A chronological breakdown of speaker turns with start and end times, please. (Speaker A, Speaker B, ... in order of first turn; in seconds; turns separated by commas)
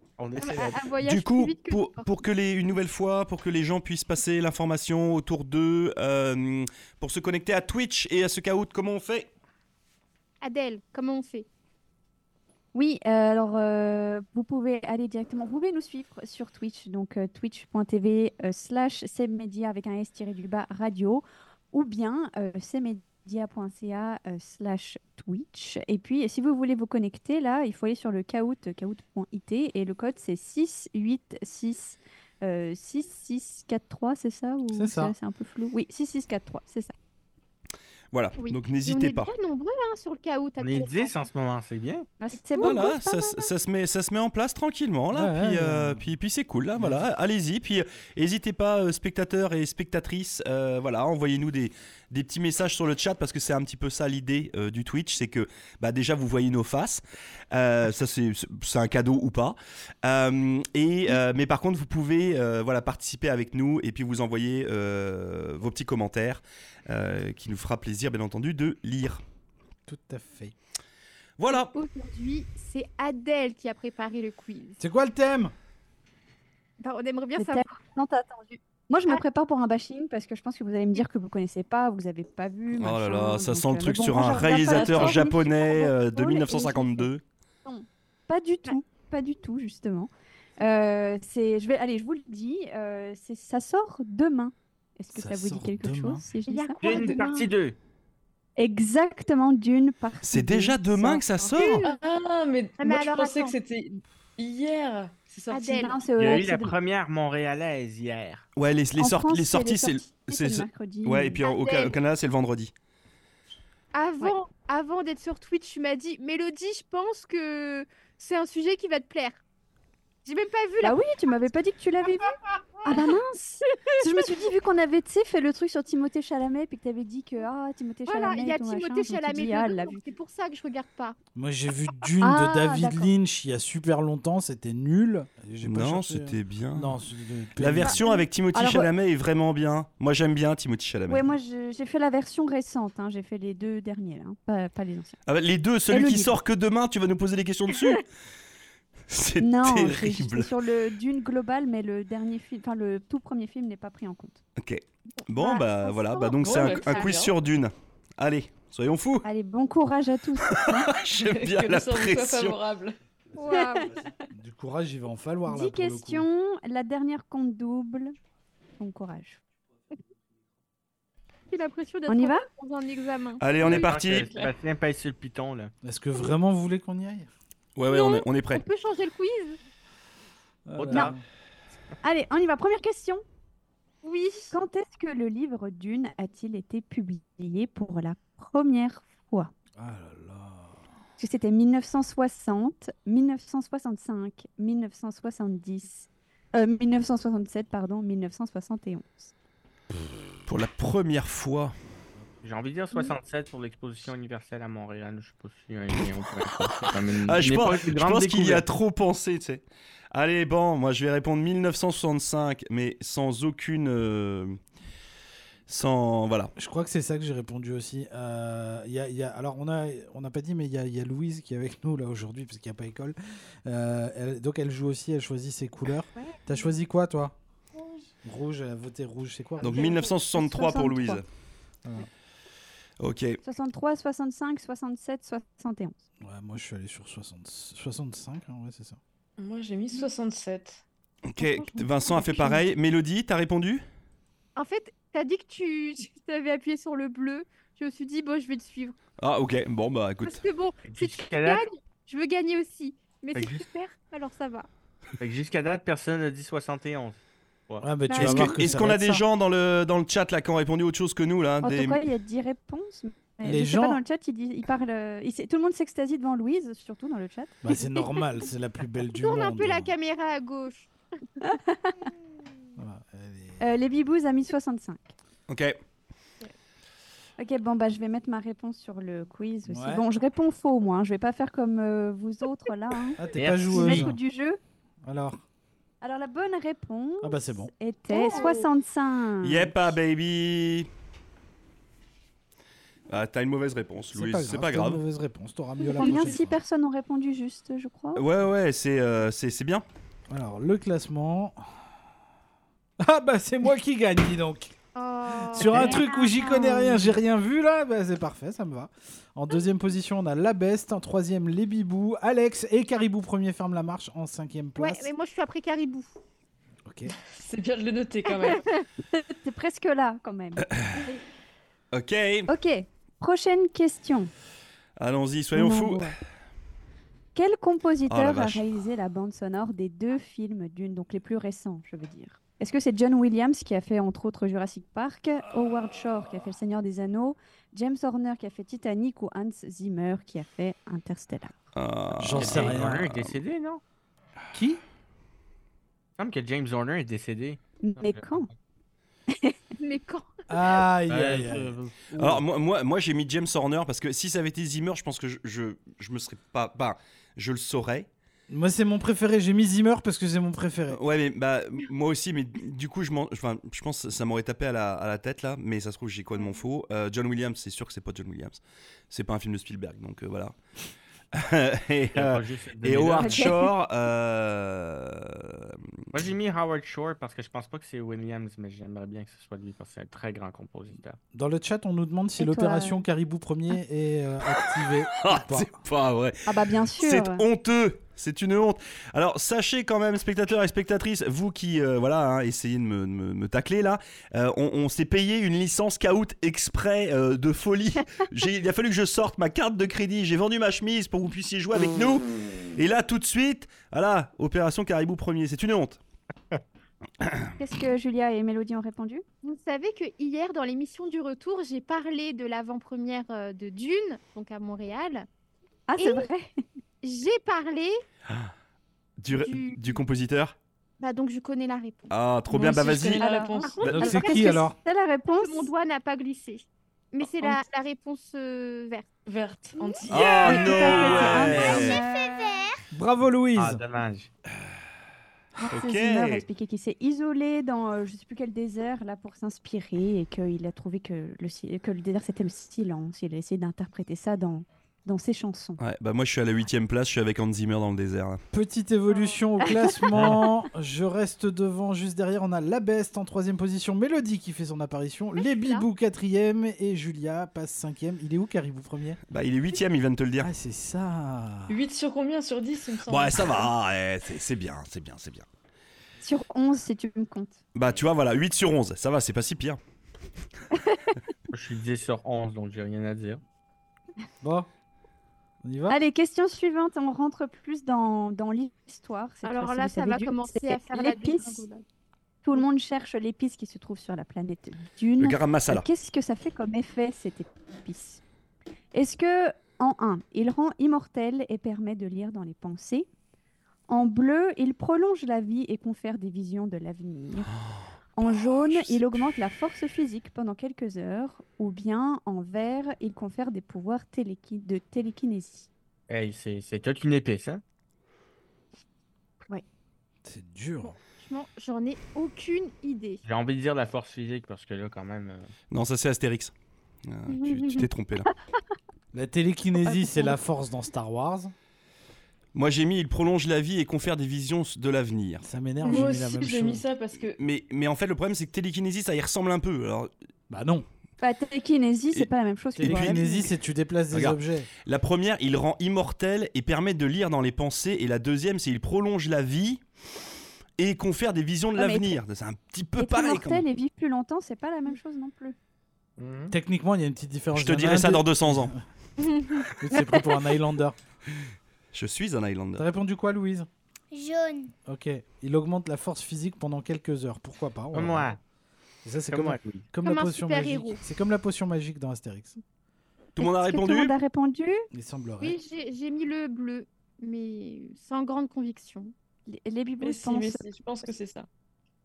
Speaker A: 0.2-0.9, Speaker B: 0.4-2.1, Speaker C: 1.0-9.3, Speaker B: 10.4-11.5, Speaker D: 12.7-36.9, Speaker E: 34.7-35.1, Speaker C: 38.1-39.3, Speaker B: 38.4-41.1, Speaker A: 40.6-42.1, Speaker D: 42.2-43.5, Speaker B: 42.6-42.9, Speaker C: 42.6-69.2, Speaker E: 45.1-46.0, Speaker E: 46.8-47.0, Speaker E: 69.9-70.5, Speaker C: 71.4-71.7, Speaker B: 71.5-74.8, Speaker E: 74.8-75.5, Speaker B: 76.8-77.8, Speaker D: 77.4-87.1, Speaker C: 82.8-87.2, Speaker F: 84.5-85.4, Speaker D: 87.7-97.2, Speaker E: 95.2-96.2, Speaker B: 96.5-97.5, Speaker A: 96.8-97.8, Speaker D: 98.6-101.5, Speaker C: 100.3-101.8, Speaker B: 101.5-102.0, Speaker F: 101.6-105.9, Speaker B: 102.8-103.6, Speaker B: 105.5-106.0, Speaker D: 105.7-106.8, Speaker A: 106.2-108.5, Speaker C: 108.6-112.7, Speaker D: 109.0-111.4, Speaker B: 111.4-112.0, Speaker B: 113.9-119.4, Speaker B: 120.2-121.0, Speaker D: 120.8-130.0, Speaker B: 128.1-131.2, Speaker E: 131.3-138.0, Speaker D: 132.2-133.1, Speaker C: 135.6-137.0, Speaker C: 137.6-141.2, Speaker D: 137.8-138.9, Speaker D: 141.1-145.2, Speaker C: 145.3-148.1, Speaker D: 145.9-146.4, Speaker C: 149.1-150.5, Speaker D: 149.4-154.4, Speaker C: 154.6-159.3, Speaker D: 155.3-157.0, Speaker F: 156.4-157.3, Speaker D: 159.2-160.9, Speaker C: 160.5-162.6, Speaker F: 161.2-163.0, Speaker B: 163.4-164.0, Speaker D: 163.5-163.9, Speaker E: 164.3-166.3, Speaker D: 165.5-168.2, Speaker D: 168.8-169.4, Speaker B: 171.5-173.5, Speaker D: 172.1-172.4, Speaker C: 173.4-174.3, Speaker A: 173.6-175.7, Speaker F: 173.7-174.6, Speaker E: 175.8-177.3, Speaker C: 177.8-178.6, Speaker B: 177.8-179.6, Speaker E: 180.7-181.2, Speaker A: 180.8-181.1, Speaker D: 182.0-183.2, Speaker B: 184.0-184.5, Speaker D: 184.5-189.5, Speaker E: 189.8-190.8, Speaker D: 191.2-199.3, Speaker C: 200.5-201.8, Speaker A: 202.4-208.7, Speaker C: 206.4-214.6, Speaker C: 215.7-216.5, Speaker E: 216.6-227.3, Speaker E: 228.2-230.0, Speaker C: 229.6-231.2, Speaker D: 229.7-231.2, Speaker C: 233.0-233.4, Speaker D: 233.4-236.0, Speaker E: 236.2-239.0, Speaker F: 239.4-240.8, Speaker C: 241.3-243.8, Speaker B: 241.4-242.6, Speaker B: 244.6-248.9, Speaker C: 249.2-250.4, Speaker B: 250.2-254.7, Speaker A: 250.8-251.7, Speaker A: 253.3-253.6, Speaker A: 255.2-257.9, Speaker E: 257.8-259.2, Speaker B: 258.1-258.5, Speaker C: 258.2-262.0, Speaker D: 261.6-267.6, Speaker E: 263.4-264.0, Speaker E: 267.6-269.9, Speaker B: 269.2-270.9, Speaker D: 271.4-272.1, Speaker E: 272.8-273.6, Speaker D: 273.6-275.1, Speaker C: 275.5-275.8, Speaker D: 277.4-284.6, Speaker E: 279.7-280.1, Speaker E: 283.2-284.2, Speaker A: 283.3-284.1, Speaker E: 285.0-285.4, Speaker D: 286.0-289.8, Speaker E: 287.2-287.7, Speaker B: 288.1-288.7, Speaker C: 289.4-290.9, Speaker C: 293.1-295.0, Speaker E: 294.1-296.6, Speaker D: 295.9-298.2, Speaker B: 295.9-296.3, Speaker C: 298.1-299.9, Speaker E: 300.3-301.6, Speaker E: 303.0-304.8, Speaker B: 304.9-306.1, Speaker E: 305.4-315.1, Speaker D: 305.8-307.1, Speaker B: 314.8-316.1, Speaker E: 316.9-317.1, Speaker F: 317.3-318.6, Speaker D: 319.1-320.7, Speaker C: 320.7-321.1, Speaker C: 321.9-322.5, Speaker D: 322.5-324.3, Speaker C: 325.0-326.2, Speaker D: 325.6-326.2, Speaker D: 327.4-341.6, Speaker C: 328.1-328.6, Speaker C: 341.8-343.4, Speaker E: 342.2-343.1, Speaker A: 342.3-343.8, Speaker E: 344.5-344.8, Speaker A: 346.2-348.5, Speaker D: 347.8-348.5, Speaker D: 349.3-349.6, Speaker B: 349.8-350.6, Speaker E: 350.5-352.4, Speaker A: 351.1-352.4, Speaker C: 352.2-358.1, Speaker E: 358.5-361.0, Speaker C: 360.9-370.6, Speaker C: 371.3-376.2, Speaker A: 372.1-373.6, Speaker D: 373.2-373.7, Speaker A: 376.1-381.2, Speaker E: 381.3-385.8, Speaker D: 382.4-383.1, Speaker C: 385.1-406.0, Speaker D: 386.5-387.5, Speaker C: 407.2-407.5, Speaker D: 407.6-409.2, Speaker B: 409.4-415.3, Speaker D: 415.9-416.6, Speaker B: 416.0-416.3, Speaker B: 417.0-418.0, Speaker C: 419.2-420.6, Speaker B: 419.3-420.0, Speaker B: 421.0-422.8, Speaker C: 422.1-423.3, Speaker F: 422.5-424.1, Speaker D: 423.2-425.7, Speaker B: 423.6-424.6, Speaker E: 423.8-424.8, Speaker B: 425.3-429.1, Speaker F: 429.3-431.4, Speaker C: 430.1-432.0, Speaker D: 430.4-432.6, Speaker G: 430.9-432.8, Speaker E: 432.9-433.8, Speaker A: 433.6-434.3, Speaker D: 435.6-445.8, Speaker C: 435.7-436.4, Speaker C: 445.8-448.4, Speaker E: 448.5-459.2, Speaker D: 449.7-450.0, Speaker B: 455.4-455.9, Speaker C: 459.3-460.5, Speaker E: 460.4-461.8, Speaker F: 461.7-463.7, Speaker C: 463.1-465.5, Speaker D: 466.2-467.6, Speaker C: 467.7-469.8, Speaker D: 470.8-471.1, Speaker A: 471.5-473.4, Speaker E: 474.4-474.7, Speaker E: 475.6-476.0, Speaker D: 475.9-481.7, Speaker B: 479.4-481.8, Speaker D: 482.4-488.2, Speaker C: 485.2-485.9, Speaker D: 488.9-493.1, Speaker D: 493.9-497.5, Speaker C: 497.5-499.1, Speaker D: 498.1-505.7, Speaker A: 506.1-507.6, Speaker E: 510.2-511.0, Speaker B: 510.8-513.2, Speaker A: 513.2-515.5, Speaker C: 515.7-516.5, Speaker C: 517.0-518.3, Speaker B: 517.3-517.9, Speaker E: 519.1-521.5, Speaker D: 519.9-520.3, Speaker C: 522.5-525.5, Speaker E: 525.4-526.8, Speaker F: 525.9-527.4, Speaker C: 527.4-530.1, Speaker E: 530.5-530.9, Speaker D: 531.2-533.5, Speaker E: 532.8-534.7, Speaker C: 532.8-533.2, Speaker C: 534.1-539.8, Speaker C: 540.8-543.6, Speaker D: 541.8-542.2, Speaker D: 543.0-545.5, Speaker A: 546.2-546.5, Speaker E: 546.5-548.8, Speaker C: 547.5-548.7, Speaker E: 549.7-551.0, Speaker C: 551.9-552.9, Speaker E: 552.8-553.7, Speaker G: 554.1-554.7, Speaker E: 554.8-558.3, Speaker A: 557.9-558.4, Speaker E: 559.0-562.6, Speaker A: 559.3-559.9, Speaker B: 560.0-561.0, Speaker C: 563.4-564.1, Speaker D: 563.4-564.9, Speaker E: 564.9-565.6, Speaker B: 565.4-569.1, Speaker D: 569.5-570.6, Speaker F: 570.0-571.5